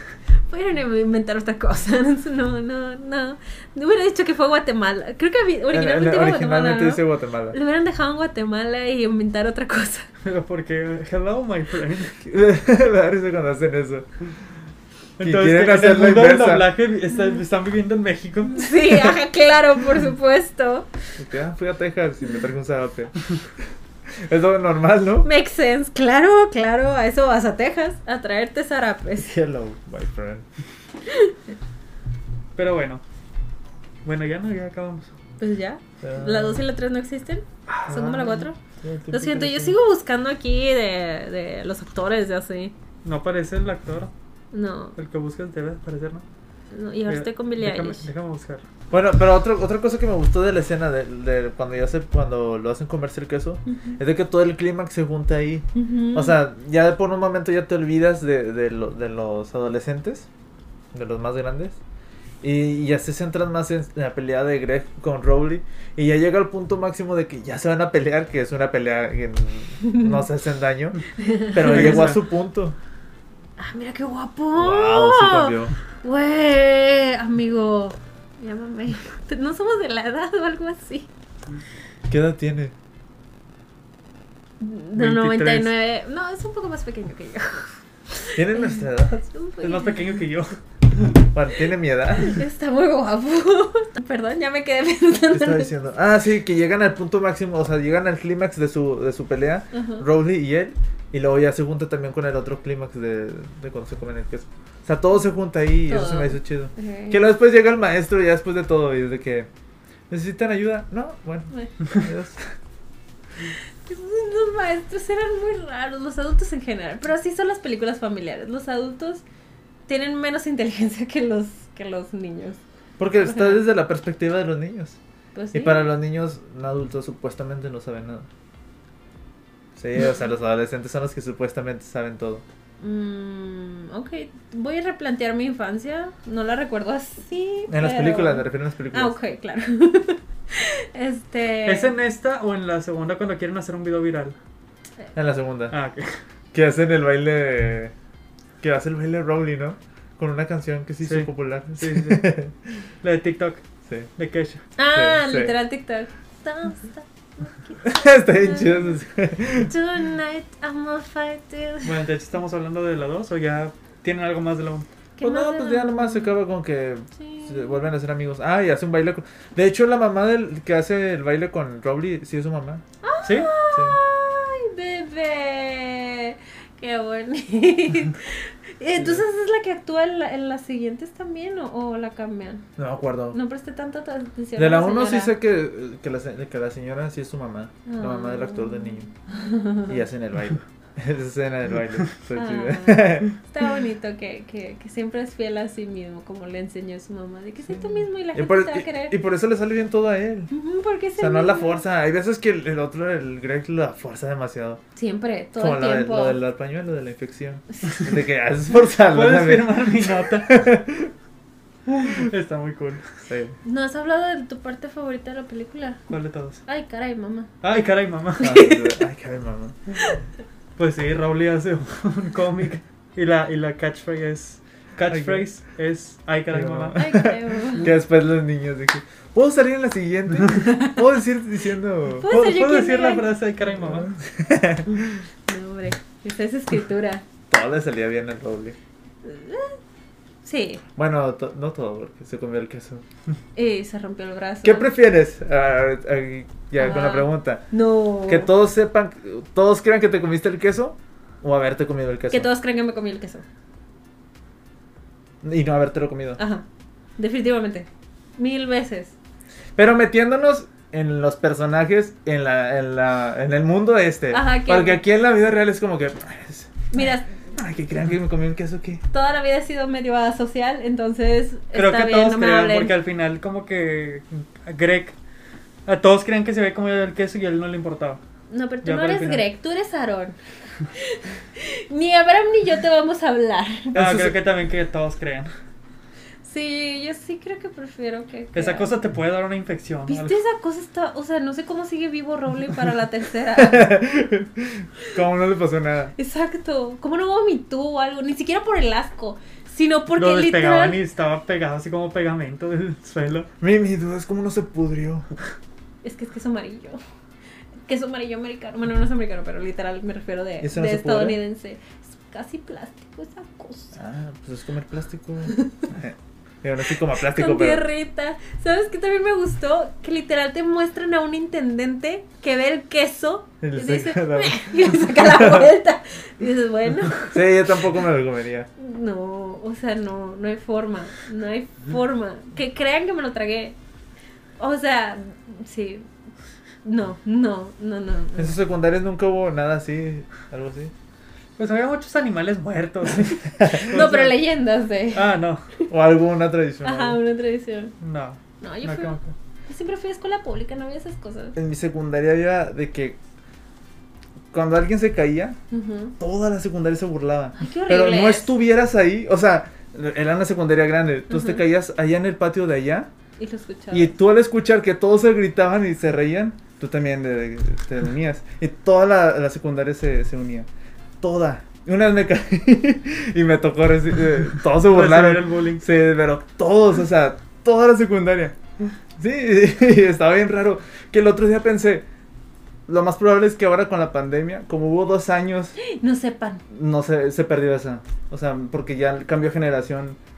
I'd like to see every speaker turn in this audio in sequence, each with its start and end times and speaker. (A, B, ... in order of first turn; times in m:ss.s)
0:00.5-0:10.1 A
0:05.7-0:07.6 B
0:10.2-0:12.2 C
0:12.2-0:14.1 B
0:15.2-0:19.1 C
0:15.2-0:16.7 B
0:18.5-0:20.9 A
0:21.2-0:23.3 B
0:24.1-0:25.3 B
0:25.2-0:29.3 A
0:29.2-0:30.4 B
0:31.1-0:31.3 A
0:32.6-0:33.0 C
0:34.0-0:35.1 C
0:35.4-0:38.6 A
0:36.0-0:36.6 B
0:37.7-0:39.8 B
0:39.1-0:42.7 A
0:43.0-0:44.1 C
0:44.5-0:45.0 A
0:45.0-0:46.2 C
0:46.7-0:48.1 A
0:47.1-0:48.6 C
0:48.9-1:00.3 B
0:53.7-0:54.0 A
0:55.7-0:56.4 A
1:00.9-1:01.8 B
1:02.4-1:12.8 B
1:09.8-1:10.2 A
1:11.2-1:12.1 A
1:11.6-1:12.2 C
1:13.6-1:21.1 A
1:14.5-1:15.7 B
1:22.1-1:22.7 B
1:24.6-1:30.0 A
1:25.0-1:25.7 C
1:28.3-1:29.2 B
1:29.6-1:31.2 C
1:31.3-1:32.4 B
1:32.2-1:35.7 A
1:35.3-1:49.5 B
1:39.7-1:40.0 A
1:45.9-1:47.2 A
1:50.1-1:52.5 B
1:53.8-1:59.2 A
1:59.9-2:02.6 A
2:03.0-2:05.0 B
2:03.2-2:03.6 A
2:05.3-2:05.9 A
2:05.5-2:08.3 B
2:09.8-2:12.4 B
2:12.8-2:21.9 A
2:17.7-2:19.2 B
2:21.6-2:24.4 C
2:25.1-2:25.7 B
2:25.7-2:26.2 C
2:26.5-2:27.9 B
2:28.6-2:32.5 B
2:31.0-2:32.3 C
2:33.0-2:33.6 C
2:34.2-2:34.6 C
2:34.8-2:39.0 A
2:34.9-2:35.5 B
2:37.8-2:39.7 B
2:39.6-2:42.0 A
2:41.8-2:44.9 C
2:45.2-2:46.3 A
2:45.2-2:52.8 B
2:47.2-2:47.8 A
2:53.0-3:02.6 A
2:53.2-2:53.5 C
2:53.7-2:54.0 B
2:59.0-2:59.2 B
3:02.8-3:03.4 B
3:03.3-3:05.3 A
3:04.6-3:09.1 B
3:07.8-3:09.9 A
3:09.8-3:13.3 B
3:12.3-3:19.1 A
3:17.8-3:20.5 B
3:20.5-3:21.8 A
3:21.2-3:24.8 B
3:25.0-3:26.4 A
3:25.6-3:31.1 B
3:29.1-3:30.5 C
3:31.9-3:33.0 C
3:33.3-3:33.6 B
3:33.6-3:36.0 A
3:36.1-3:36.6 C
3:36.6-3:37.5 A
3:37.6-3:38.6 C
3:38.4-3:39.0 A
3:38.4-3:39.8 B
3:40.8-3:47.0 C
3:45.1-3:45.5 B
3:46.5-3:52.3 B
3:46.9-3:47.9 A
3:52.2-3:53.3 A
3:52.2-3:54.1 C
3:53.8-3:55.2 B
3:55.5-3:57.2 A
3:57.5-3:58.8 B
3:59.2-3:59.8 A
4:00.4-4:00.8 A
4:01.0-4:03.0 B
4:03.6-4:04.9 A
4:04.6-4:07.6 B
4:06.8-4:08.5 A
4:08.2-4:12.5 B
4:12.3-4:13.4 A
4:15.4-4:16.4 B
4:16.4-4:16.6 A
4:17.2-4:19.1 A
4:19.8-4:27.0 B
4:24.3-4:25.0 A
4:26.9-4:27.4 A
4:27.5-4:29.0 B
4:29.1-4:33.0 A
4:31.7-4:35.2 C
4:35.8-4:38.2 C
4:38.5-4:40.4 A
4:38.8-4:39.4 C
4:40.9-4:44.0 A
4:43.9-4:44.3 B
4:43.9-4:45.5 C
4:46.4-4:48.9 A
4:48.5-4:50.4 C
4:50.1-4:54.0 A
4:53.5-4:56.1 B
4:56.2-5:01.0 A
5:00.1-5:03.5 C
5:03.6-5:05.3 B
5:06.0-5:07.0 A
5:07.9-5:14.0 A
5:10.6-5:11.4 B
5:13.9-5:17.8 B
5:17.2-5:27.6 A
5:23.6-5:25.7 B
5:27.2-5:28.7 B
5:28.8-5:33.8 A
5:34.6-5:36.1 A
5:36.8-5:38.6 A
5:38.4-5:40.9 B
5:41.6-5:44.4 C
5:43.6-5:43.9 B
5:43.7-5:45.9 A
5:45.1-5:45.6 C
5:45.9-5:47.2 B
5:46.8-5:47.9 A
5:48.0-5:49.3 C
5:48.6-5:51.5 A
5:51.5-5:53.2 B
5:54.5-5:55.6 B
5:55.7-5:56.1 A
5:56.2-6:03.1 B
5:57.6-5:58.5 A
6:01.3-6:01.6 A
6:03.4-6:04.1 A
6:03.9-6:10.7 B
6:11.2-6:18.6 B
6:14.8-6:15.8 C
6:19.2-6:22.0 B
6:22.9-6:25.8 B
6:25.8-6:26.6 A
6:26.7-6:30.2 B